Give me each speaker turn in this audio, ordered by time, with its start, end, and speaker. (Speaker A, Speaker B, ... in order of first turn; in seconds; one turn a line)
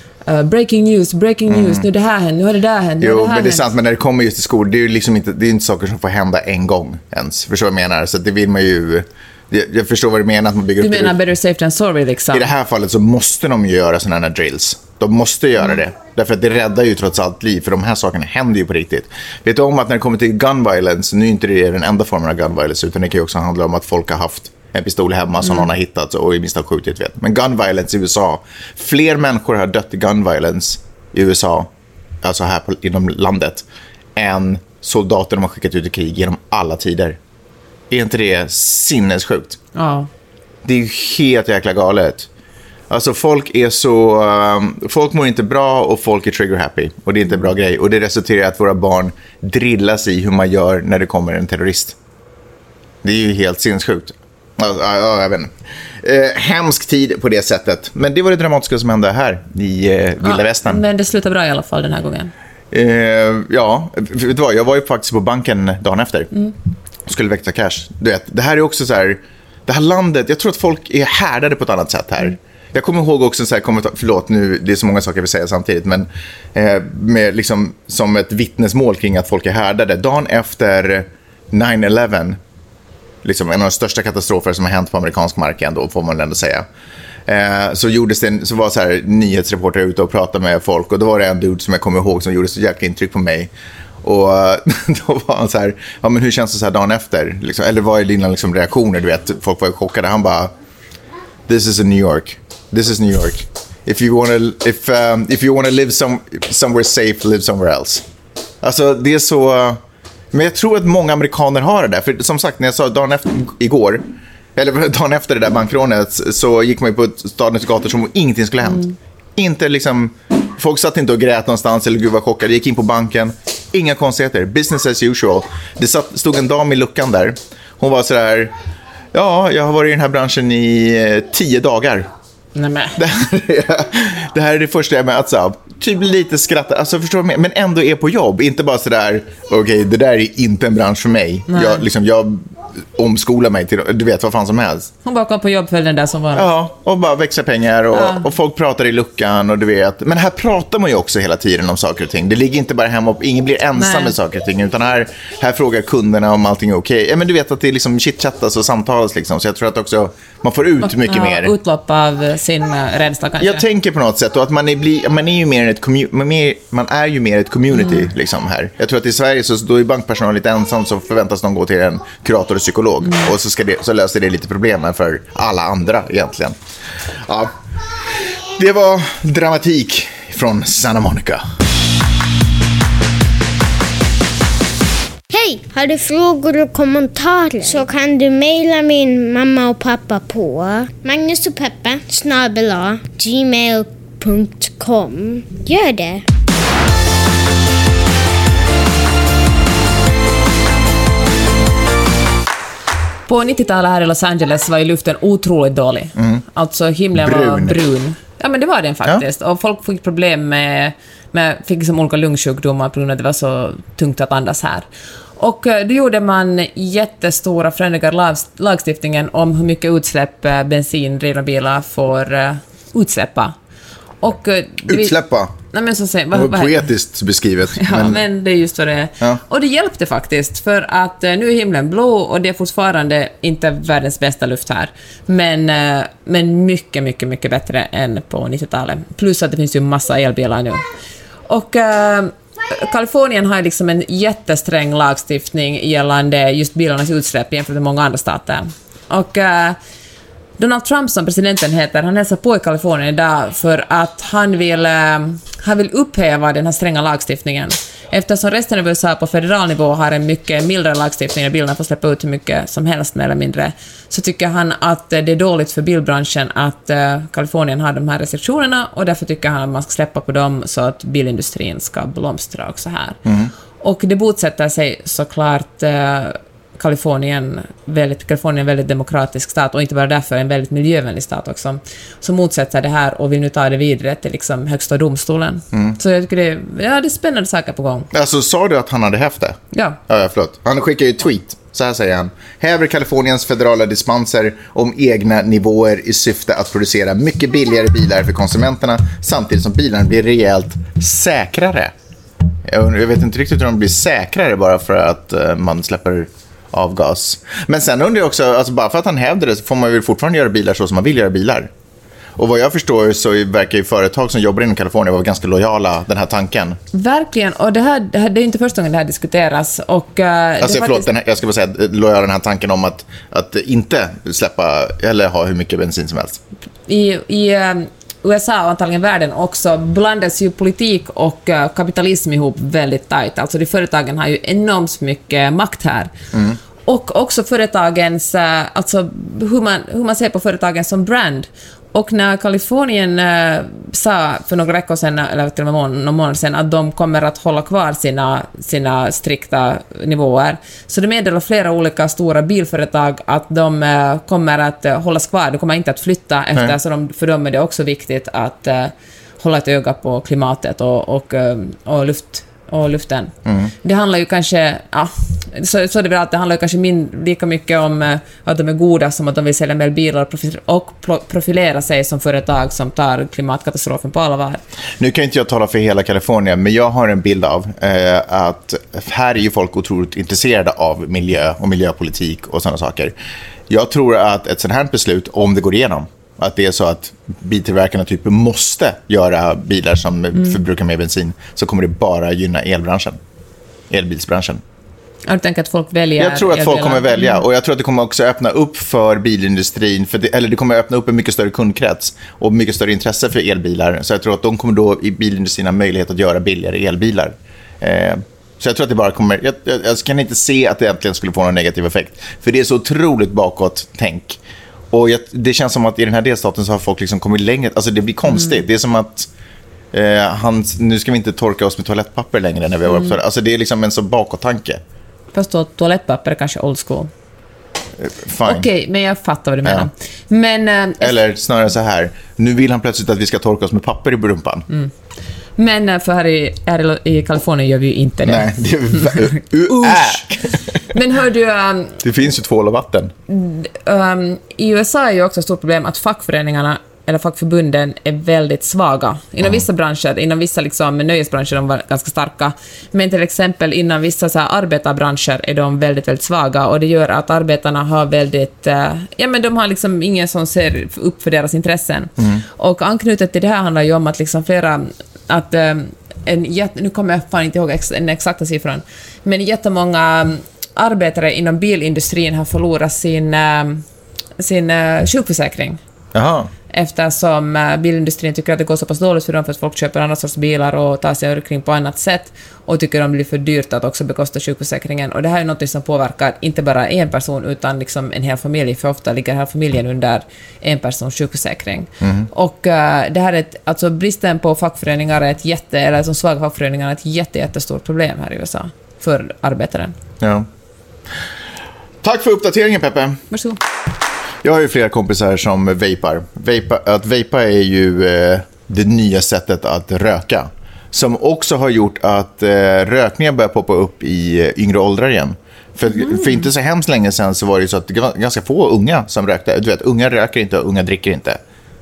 Speaker A: 0.3-3.7
Speaker B: 1.5-1.9
Speaker B: 3.0-11.2
Speaker A: 10.8-12.5
Speaker B: 12.3-31.7
Speaker B: 32.2-33.6
Speaker B: 34.2-37.2
Speaker B: 37.9-39.6
Speaker A: 39.8-40.1
Speaker B: 40.6-42.3
Speaker B: 42.9-52.0
Speaker B: 53.0-60.8
Speaker A: 60.2-62.3
Speaker B: 62.7-66.3
Speaker B: 67.1-82.4
Speaker B: 83.2-86.7
Speaker B: 87.3-93.5
Speaker B: 94.0-100.5
Speaker B: 101.5-108.0
Speaker B: 108.6-109.8
Speaker B: 110.3-114.0
Speaker B: 114.6-128.5
Speaker B: 129.1-132.1
Speaker A: 132.6-133.0
Speaker B: 133.0-144.9
Speaker A: 141.5-141.8
Speaker A: 145.0-146.5
Speaker B: 146.3-161.5
Speaker A: 147.9-148.3
Speaker A: 153.8-154.2
Speaker A: 160.8-163.6
Speaker B: 163.4-176.6
Speaker B: 177.3-177.6
Speaker B: 178.1-181.4
Speaker C: 185.3-196.2
Speaker A: 203.3-214.9
Speaker B: 206.2-206.4
Speaker B: 207.2-207.8
Speaker A: 215.4-223.6
Speaker A: 224.2-225.2
Speaker B: 224.9-225.5
Speaker A: 225.7-226.8
Speaker B: 226.3-228.2
Speaker A: 227.8-240.8
Speaker A: 241.5-249.8
Speaker A: 250.6-273.2
Speaker B: 273.2-273.5
Speaker A: 273.8-288.1
Speaker B: 288.1-301.9
Speaker A: 289.7-290.0
Speaker B: 302.7-311.7
Speaker B: 312.4-316.8
Speaker A: 316.9-321.1
Speaker B: 320.6-326.4
Speaker A: 326.9-336.1
Speaker B: 336.3-336.6
Speaker A: 336.9-374.6
Speaker B: 363.5-363.7
Speaker B: 375.0-383.1
Speaker B: 383.7-393.2
Speaker B: 393.9-394.6
Speaker A: 395.3-397.4
Speaker B: 396.2-414.4
Speaker B: 414.9-419.3
Speaker B: 419.9-424.8
Speaker A: 425.3-427.1
Speaker B: 428.0-428.7
Speaker A: 428.4-431.1
Speaker B: 431.0-434.7
Speaker A: 435.6-442.0
Speaker B: 438.2-440.9
Speaker B: 442.0-443.1
Speaker A: 443.3-473.8
Speaker A: 474.4-475.8
Speaker B: 476.1-476.5
Speaker A: 476.7-499.9
Speaker B: 492.0-492.3
Speaker B: 500.2-500.5
Speaker B: 502.0-503.2
Speaker A: 503.3-503.6
Speaker B: 504.4-521.4
Speaker A: 516.0-516.4